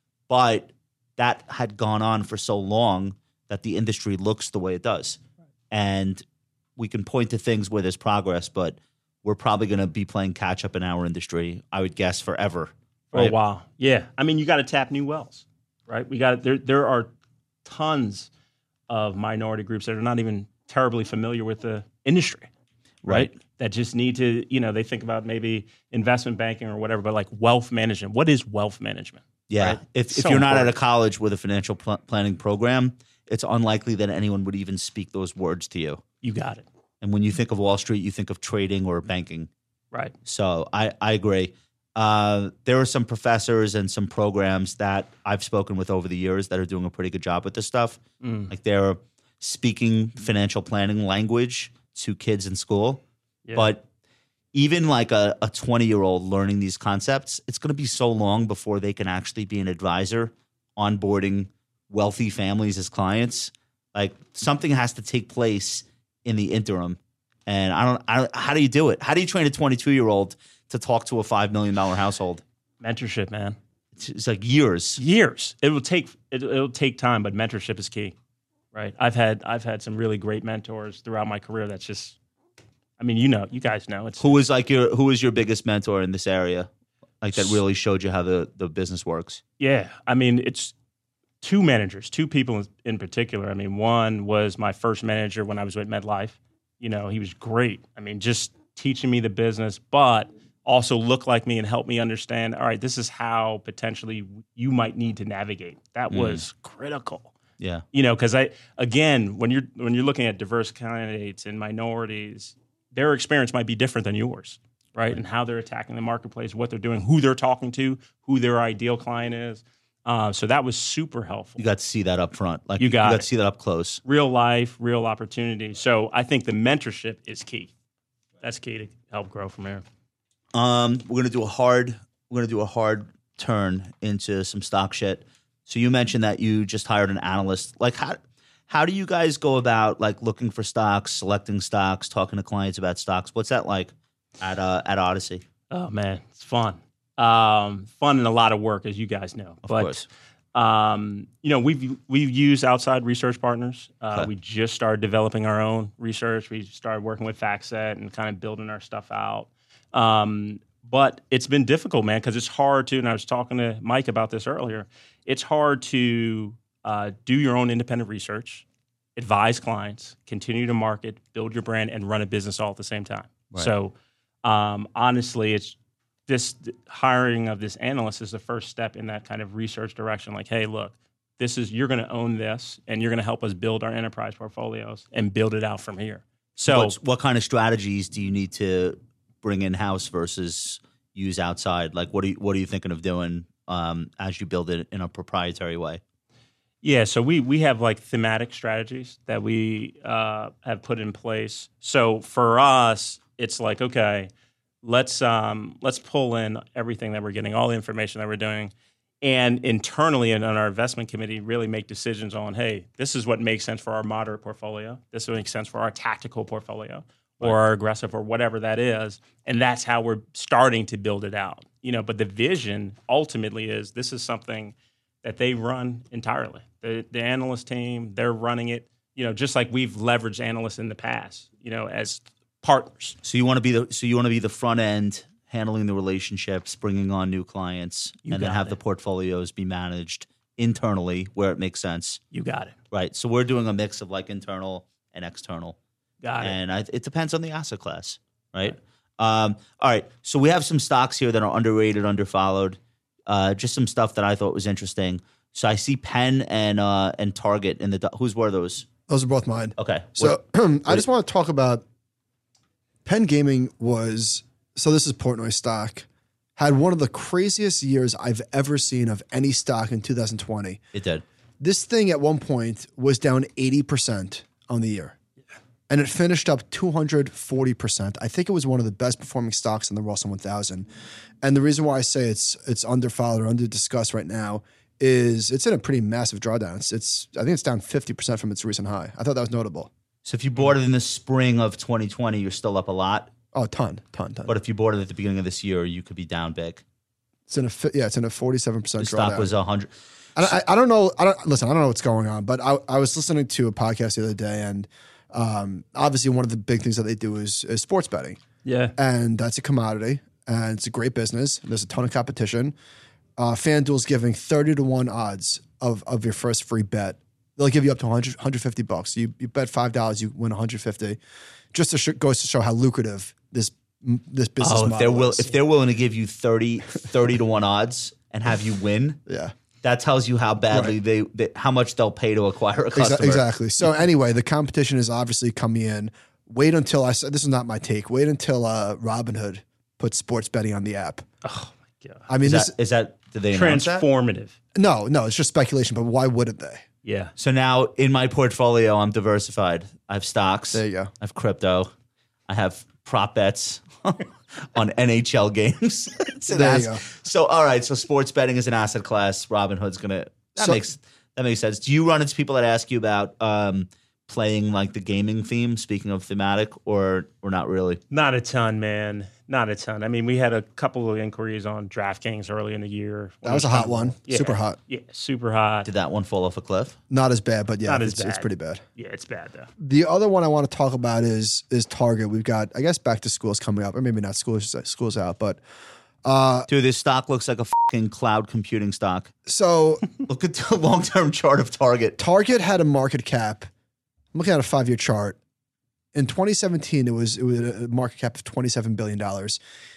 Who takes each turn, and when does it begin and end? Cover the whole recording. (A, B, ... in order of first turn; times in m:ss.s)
0:00.3-0:05.2 A
0:05.7-0:06.2 A
0:06.8-0:13.3 A
0:13.1-0:17.1 B
0:17.6-0:18.3 B
0:18.9-0:22.5 B
0:23.0-0:23.3 A
0:23.1-0:30.7 B
0:29.5-0:36.0 A
0:36.2-0:36.6 B
0:37.0-0:39.5 A
0:40.2-0:53.0 A
0:48.2-0:48.5 B
0:53.4-0:53.7 B
0:53.5-0:53.8 A
0:54.5-1:12.4 A
1:12.8-1:13.6 B
1:14.0-1:15.0 A
1:15.0-1:18.2 B
1:18.7-1:22.2 B
1:23.0-1:24.4 B
1:24.2-1:26.7 A
1:27.2-1:29.4 A
1:29.6-1:30.7 B
1:31.4-1:47.3 B
1:46.1-1:46.4 A
1:47.6-1:47.8 A
1:47.9-2:01.6 B
2:01.6-2:04.0 A
2:02.8-2:03.3 B
2:04.0-2:07.7 B
2:08.4-2:09.8 B
2:10.5-2:25.4 A
2:25.7-2:48.6 B
2:29.6-2:30.1 A
2:49.2-2:55.8 B
2:56.3-3:07.0 B
3:06.7-3:16.0 A
3:16.8-3:24.3 B
3:24.8-3:53.2 B
3:53.2-4:02.2 A
3:58.2-3:58.8 B
4:02.3-4:02.8 B
4:02.9-4:05.8 A
4:06.2-4:06.6 B
4:06.4-4:18.9 A
4:19.1-4:21.8 C
4:19.8-4:21.0 A
4:23.0-4:26.1 C
4:26.6-4:30.8 C
4:30.9-4:31.2 A
4:31.6-4:35.2 C
4:35.9-4:40.9 C
4:41.4-4:49.9 C
4:50.2-4:53.3 A
4:53.5-4:54.6 C
4:54.5-4:56.8 A
4:57.5-4:59.5 C
4:59.0-4:59.9 A
5:00.4-5:08.4 C
5:08.6-5:08.9 B
5:09.0-5:12.7 C
5:13.4-5:21.2 C
5:21.7-5:25.5 C
5:24.6-5:29.2 A
5:29.3-5:29.5 C
5:29.8-5:33.5 A
5:32.9-5:41.2 C
5:41.4-5:42.3 B
5:42.3-5:42.7 C
5:42.4-5:44.1 A
5:43.5-5:44.6 B
5:44.8-5:46.8 C
5:47.0-5:47.3 B
5:47.4-5:51.9 A
5:50.7-5:51.1 C
5:52.5-6:08.0 A
5:56.5-5:57.0 C
6:00.6-6:00.8 C
6:08.1-6:15.9 B
6:13.4-6:14.8 C
6:15.8-6:17.0 A
6:17.1-6:18.8 C
6:17.9-6:19.7 B
6:19.8-6:25.6 C
6:26.2-6:26.7 C
6:26.7-6:29.3 A
6:29.5-6:30.1 C
6:30.2-6:32.2 A
6:32.2-6:33.7 C
6:34.3-6:35.4 C
6:36.1-6:39.6 C